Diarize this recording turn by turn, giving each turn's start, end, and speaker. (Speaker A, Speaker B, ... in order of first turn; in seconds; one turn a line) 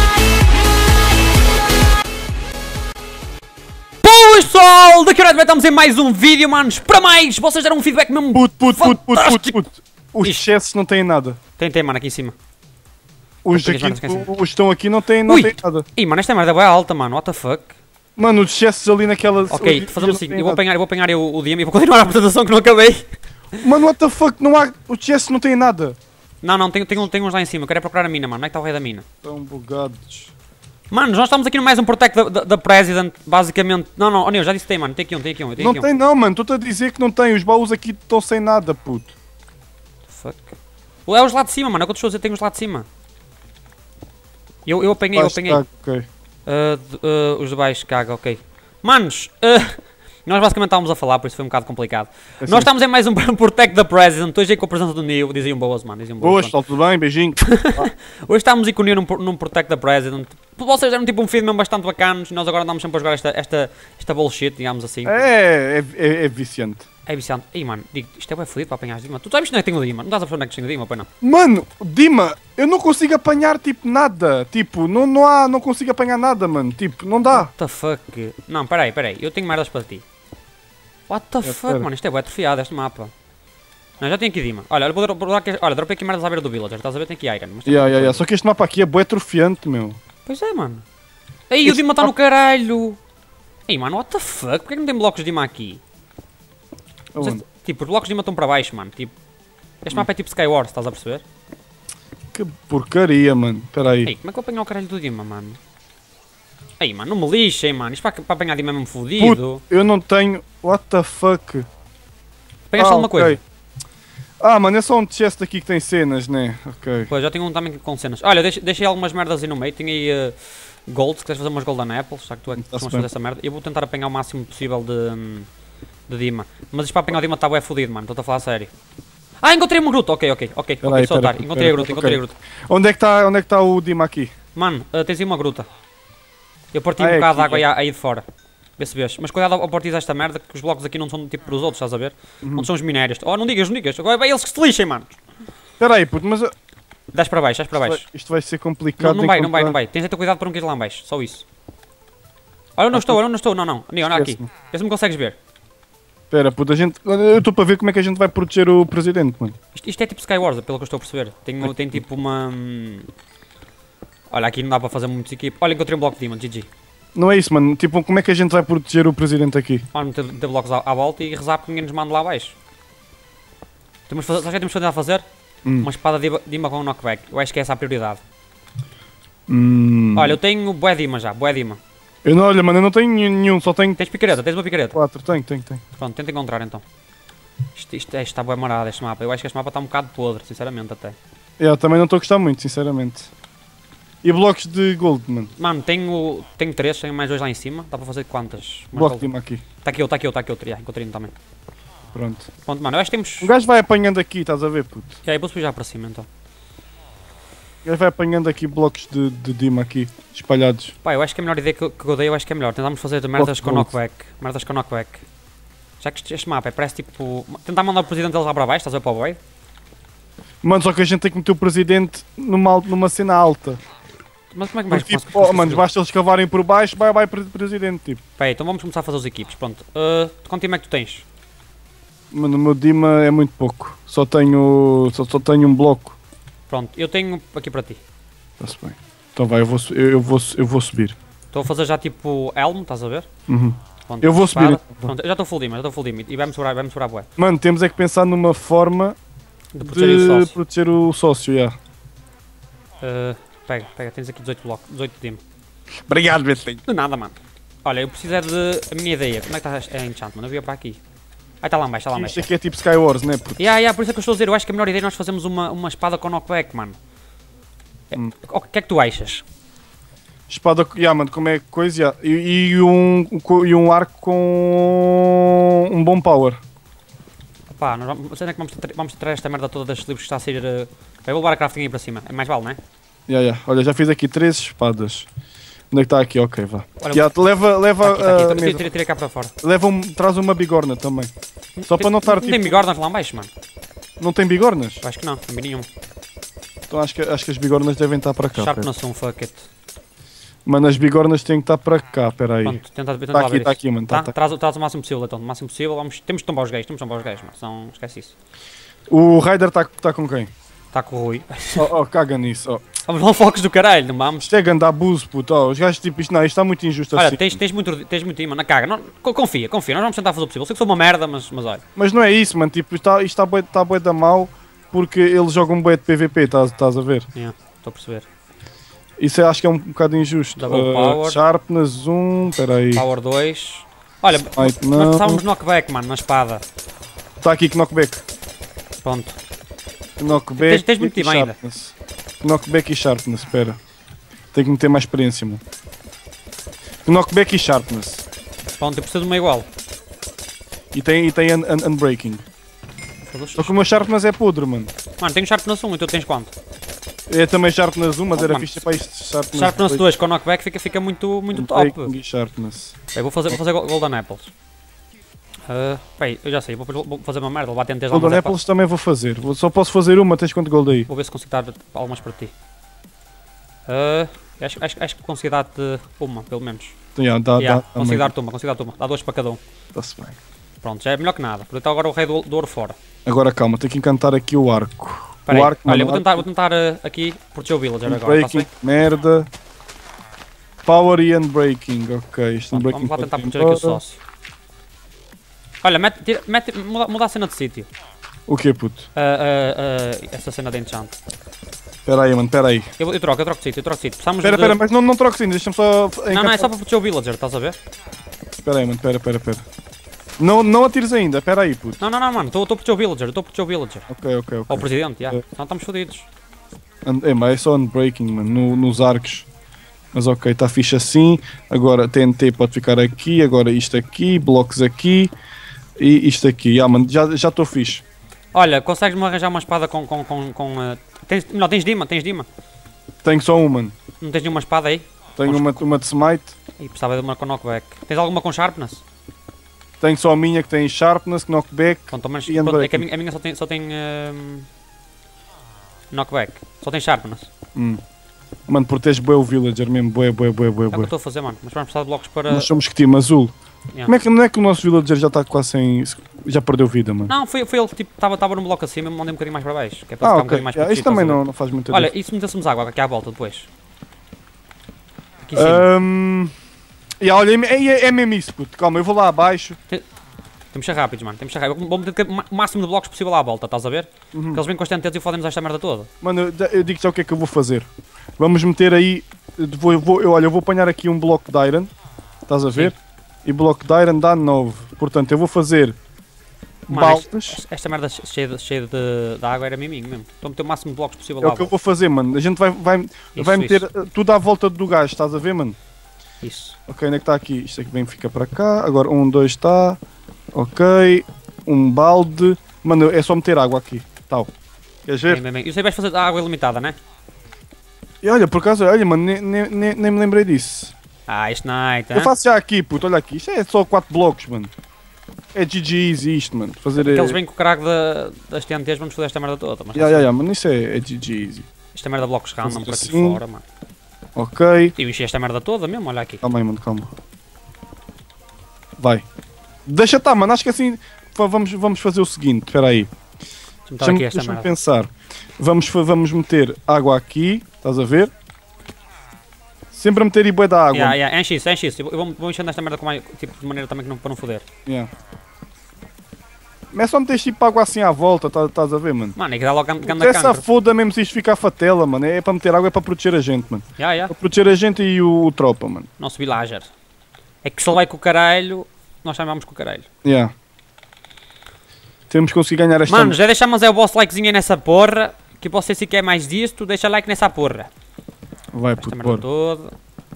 Speaker A: 4.0-9.7
Speaker B: 8.3-11.4
Speaker A: 11.6-12.4
Speaker B: 13.4-15.9
Speaker A: 13.5-14.3
Speaker A: 15.3-17.8
Speaker B: 18.2-20.6
Speaker A: 19.5-23.1
Speaker B: 23.6-26.0
Speaker A: 26.4-29.1
Speaker B: 29.2-30.3
Speaker A: 30.9-35.9
Speaker B: 35.6-39.1
Speaker A: 40.1-42.9
Speaker A: 44.7-45.6
Speaker B: 45.1-46.1
Speaker A: 46.5-56.6
Speaker B: 52.4-52.7
Speaker B: 56.2-57.9
Speaker A: 57.4-65.3
Speaker B: 65.1-66.8
Speaker A: 67.1-71.1
Speaker B: 71.2-77.5
Speaker A: 77.3-80.0
Speaker A: 81.1-83.1
Speaker B: 81.4-81.9
Speaker A: 84.0-88.2
Speaker B: 87.7-90.0
Speaker A: 90.3-90.8
Speaker A: 91.5-93.0
Speaker B: 91.6-92.1
Speaker A: 93.7-95.8
Speaker B: 97.1-97.4
Speaker A: 97.2-99.1
Speaker A: 99.8-101.2
Speaker B: 102.3-104.1
Speaker A: 104.0-105.6
Speaker A: 106.8-109.6
Speaker B: 109.2-111.7
Speaker A: 112.7-113.4
Speaker B: 112.8-113.4
Speaker B: 114.4-117.1
Speaker A: 117.1-125.5
Speaker B: 122.5-123.1
Speaker A: 126.1-128.7
Speaker A: 129.4-132.3
Speaker B: 130.8-134.3
Speaker A: 134.6-135.7
Speaker A: 136.7-138.2
Speaker B: 137.0-137.7
Speaker A: 138.8-145.2
Speaker B: 142.4-142.7
Speaker B: 145.8-146.5
Speaker A: 147.1-148.0
Speaker B: 147.8-149.8
Speaker A: 149.0-151.4
Speaker A: 152.8-155.4
Speaker B: 152.9-153.2
Speaker B: 154.1-154.4
Speaker B: 156.3-159.6
Speaker A: 159.7-163.1
Speaker B: 161.6-162.0
Speaker A: 164.3-166.7
Speaker B: 167.2-169.8
Speaker A: 169.9-172.6
Speaker A: 174.1-175.2
Speaker B: 175.7-175.9
Speaker A: 175.8-178.2
Speaker B: 179.5-180.4
Speaker A: 180.2-181.8
Speaker B: 182.2-184.0
Speaker A: 184.0-185.0
Speaker B: 184.9-185.8
Speaker A: 185.9-186.8
Speaker A: 187.8-191.2
Speaker B: 191.6-193.3
Speaker B: 194.2-195.5
Speaker A: 195.6-199.3
Speaker B: 198.9-199.6
Speaker A: 199.8-201.3
Speaker B: 202.1-202.5
Speaker A: 202.7-203.5
Speaker B: 203.4-205.2
Speaker A: 205.2-206.3
Speaker B: 207.8-210.9
Speaker A: 211.0-215.2
Speaker B: 213.4-213.9
Speaker A: 216.0-219.4
Speaker B: 220.6-223.8
Speaker A: 224.5-225.8
Speaker B: 224.9-228.2
Speaker A: 228.4-231.2
Speaker B: 232.3-236.2
Speaker A: 236.7-238.0
Speaker B: 238.6-241.2
Speaker A: 241.5-243.3
Speaker B: 243.5-245.1
Speaker A: 244.1-247.3
Speaker B: 247.4-249.2
Speaker A: 249.7-250.6
Speaker B: 249.8-251.8
Speaker A: 253.0-255.4
Speaker B: 256.1-256.8
Speaker A: 256.9-261.0
Speaker A: 261.6-262.5
Speaker B: 262.1-263.6
Speaker A: 263.6-267.0
Speaker A: 268.1-269.4
Speaker B: 270.5-276.6
Speaker A: 277.8-282.8
Speaker B: 283.3-285.3
Speaker B: 285.9-288.9
Speaker A: 287.0-287.3
Speaker A: 288.0-289.5
Speaker B: 289.6-291.3
Speaker A: 291.8-293.5
Speaker B: 291.9-292.8
Speaker B: 294.2-295.0
Speaker A: 295.0-295.9
Speaker B: 296.9-298.9
Speaker A: 298.6-299.7
Speaker B: 300.7-302.8
Speaker A: 302.6-308.4
Speaker B: 303.3-304.3
Speaker B: 309.1-310.5
Speaker A: 310.9-311.9
Speaker B: 311.8-312.8
Speaker A: 313.1-314.5
Speaker B: 314.4-317.6
Speaker A: 317.1-321.8
Speaker B: 322.0-327.3
Speaker A: 327.4-328.3
Speaker B: 329.2-333.1
Speaker A: 330.6-331.4
Speaker A: 332.9-336.6
Speaker B: 334.5-335.4
Speaker B: 337.4-338.2
Speaker A: 339.0-339.4
Speaker B: 340.2-343.8
Speaker A: 340.6-341.6
Speaker B: 344.5-345.6
Speaker B: 347.1-348.2
Speaker A: 348.8-349.7
Speaker B: 350.9-352.4
Speaker A: 353.2-353.8
Speaker B: 353.6-354.9
Speaker A: 355.2-356.5
Speaker B: 357.3-360.1
Speaker A: 358.3-358.9
Speaker A: 359.5-362.1
Speaker B: 361.5-363.0
Speaker A: 363.1-364.5
Speaker A: 365.7-368.6
Speaker B: 368.1-371.1
Speaker A: 371.1-372.5
Speaker A: 373.9-376.9
Speaker B: 377.2-378.3
Speaker A: 377.6-379.6
Speaker B: 379.9-380.4
Speaker A: 380.8-383.0
Speaker B: 383.2-386.5
Speaker A: 385.5-388.7
Speaker B: 388.1-389.5
Speaker B: 390.9-394.0
Speaker A: 392.7-394.2
Speaker A: 395.8-397.9
Speaker B: 398.5-399.1
Speaker A: 399.1-401.2
Speaker B: 402.1-402.9
Speaker A: 403.0-404.8
Speaker B: 404.4-406.7
Speaker A: 406.3-407.8
Speaker B: 408.6-409.6
Speaker B: 410.4-412.0
Speaker A: 412.0-414.1
Speaker B: 414.1-415.4
Speaker A: 414.7-416.3
Speaker B: 417.0-419.5
Speaker B: 420.1-425.3
Speaker B: 426.0-428.0
Speaker A: 428.5-432.5
Speaker B: 433.2-433.9
Speaker A: 434.2-435.8
Speaker B: 435.4-436.6
Speaker A: 436.8-439.0
Speaker B: 440.0-443.1
Speaker A: 442.1-444.7
Speaker A: 446.1-447.5
Speaker B: 447.8-448.0
Speaker B: 448.7-451.1
Speaker A: 450.9-452.7
Speaker B: 452.5-453.5
Speaker B: 454.1-457.3
Speaker A: 457.3-463.7
Speaker B: 460.2-462.1
Speaker A: 465.4-465.9
Speaker B: 465.6-466.5
Speaker B: 467.2-469.8
Speaker A: 470.7-476.1
Speaker B: 474.3-474.6
Speaker B: 476.2-477.9
Speaker B: 478.4-481.9
Speaker B: 482.5-486.0
Speaker B: 486.9-487.6
Speaker A: 486.9-491.7
Speaker B: 491.4-495.8
Speaker A: 493.4-493.9
Speaker A: 496.4-496.8
Speaker B: 496.9-500.0
Speaker B: 500.5-504.5
Speaker B: 505.1-505.4
Speaker A: 505.3-507.0
Speaker B: 508.2-510.9
Speaker A: 511.3-512.3
Speaker B: 512.1-514.7
Speaker B: 515.5-517.4
Speaker A: 517.0-520.3
Speaker B: 520.0-521.7
Speaker A: 521.9-523.6
Speaker B: 522.6-523.4
Speaker B: 524.4-524.9
Speaker A: 525.0-526.4
Speaker B: 526.4-527.1
Speaker B: 529.0-529.2
Speaker B: 529.9-533.1
Speaker A: 533.9-534.7
Speaker B: 534.0-538.3
Speaker B: 539.9-541.2
Speaker A: 540.9-544.7
Speaker B: 546.9-549.4
Speaker A: 549.4-550.6
Speaker B: 550.0-556.1
Speaker A: 554.0-554.3
Speaker A: 556.2-556.9
Speaker A: 557.6-560.1
Speaker B: 560.2-560.5
Speaker B: 562.3-563.4
Speaker A: 563.1-567.9
Speaker B: 568.7-569.5
Speaker A: 569.0-569.9